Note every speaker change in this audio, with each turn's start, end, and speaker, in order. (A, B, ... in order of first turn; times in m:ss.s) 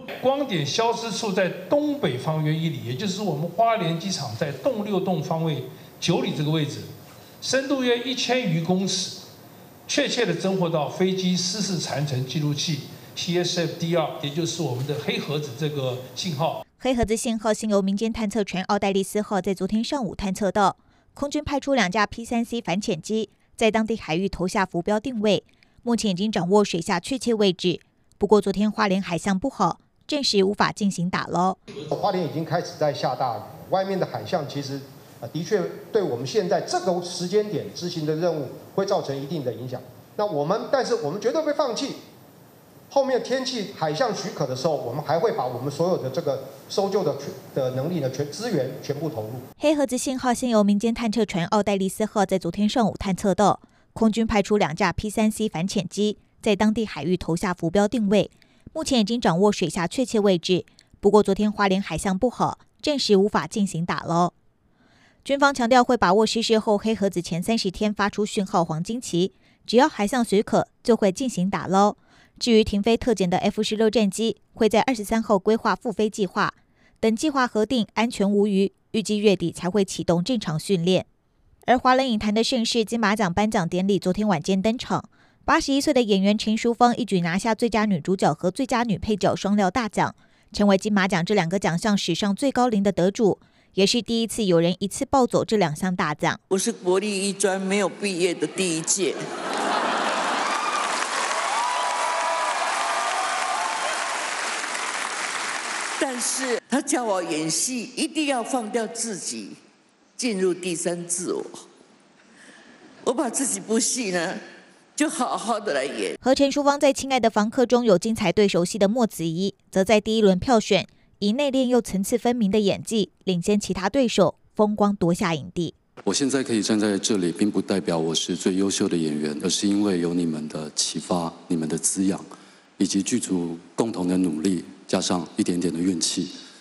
0:00.2-0:06.9 A
0:07.4-0:09.2 A
0:09.9-0:16.6 A
0:16.8-0:31.6 B
0:31.9-0:42.0 C
0:42.9-0:49.4 C
0:49.6-1:04.3 B
1:05.2-1:21.0 B
1:21.7-1:36.4 B
1:36.5-1:39.2 D
1:46.0-1:49.6 D
1:50.2-1:51.6 D
1:53.0-1:54.4 D
1:55.0-1:56.2 D
1:56.2-2:05.7 B
2:06.0-2:12.3 E
2:12.8-2:16.3 E